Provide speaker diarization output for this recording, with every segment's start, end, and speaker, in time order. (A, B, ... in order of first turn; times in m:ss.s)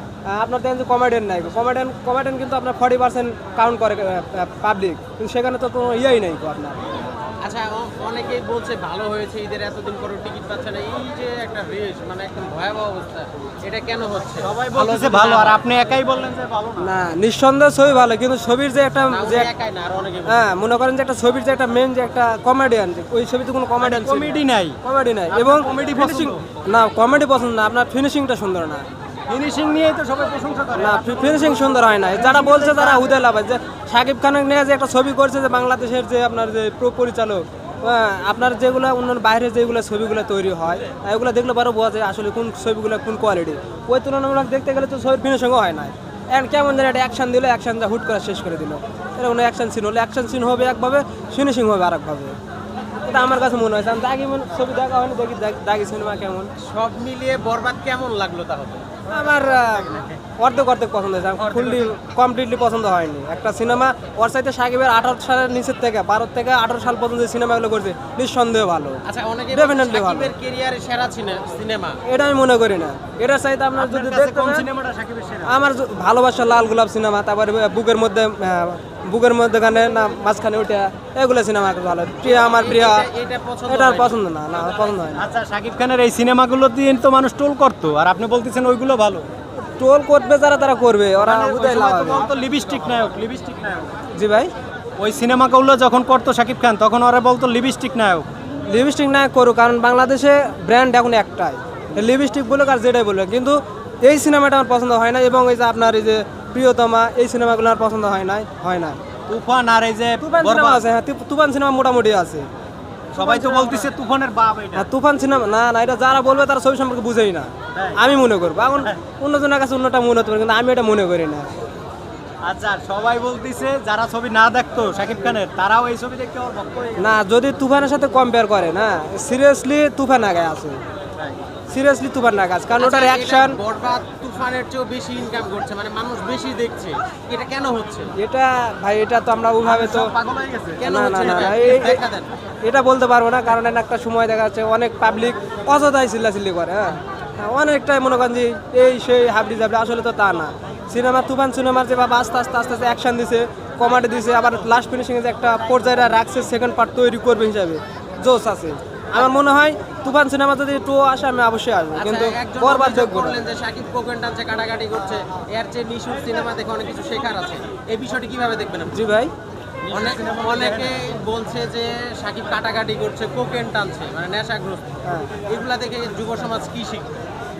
0:00.3-0:06.8 A
0:07.4-0:15.6 B
0:14.4-0:17.0 C
0:16.8-0:19.5 A
0:19.1-0:20.4 B
0:20.2-0:28.9 A
0:23.8-0:26.4 C
0:29.3-0:33.2 C
0:30.8-0:52.4 A
0:53.0-0:56.5 A
0:56.6-0:59.0 B
0:59.0-1:10.3 A
1:09.0-1:12.0 B
1:12.0-1:14.6 A
1:13.8-1:15.5 C
1:15.4-1:23.1 A
1:22.2-1:24.2 B
1:23.7-1:25.2 A
1:25.1-1:29.3 C
1:29.6-1:32.3 A
1:31.2-1:34.0 C
1:34.1-1:34.5 A
1:35.0-1:38.3 C
1:38.7-1:49.0 A
1:49.3-1:50.8 C
1:50.2-1:52.5 A
1:53.1-1:54.9 C
1:53.2-1:53.9 A
1:54.7-2:01.5 A
1:57.7-1:58.0 C
2:02.4-2:07.1 C
2:07.0-2:10.8 A
2:11.7-2:13.6 A
2:12.8-2:18.1 B
2:18.2-2:20.1 A
2:19.6-2:20.8 C
2:20.8-2:22.3 B
2:20.8-2:22.0 A
2:22.6-2:43.5 A
2:41.9-2:49.0 B
2:48.9-2:49.3 A
2:49.8-2:51.0 C
2:49.9-2:54.9 B
2:55.0-2:55.3 A
2:55.5-2:57.1 B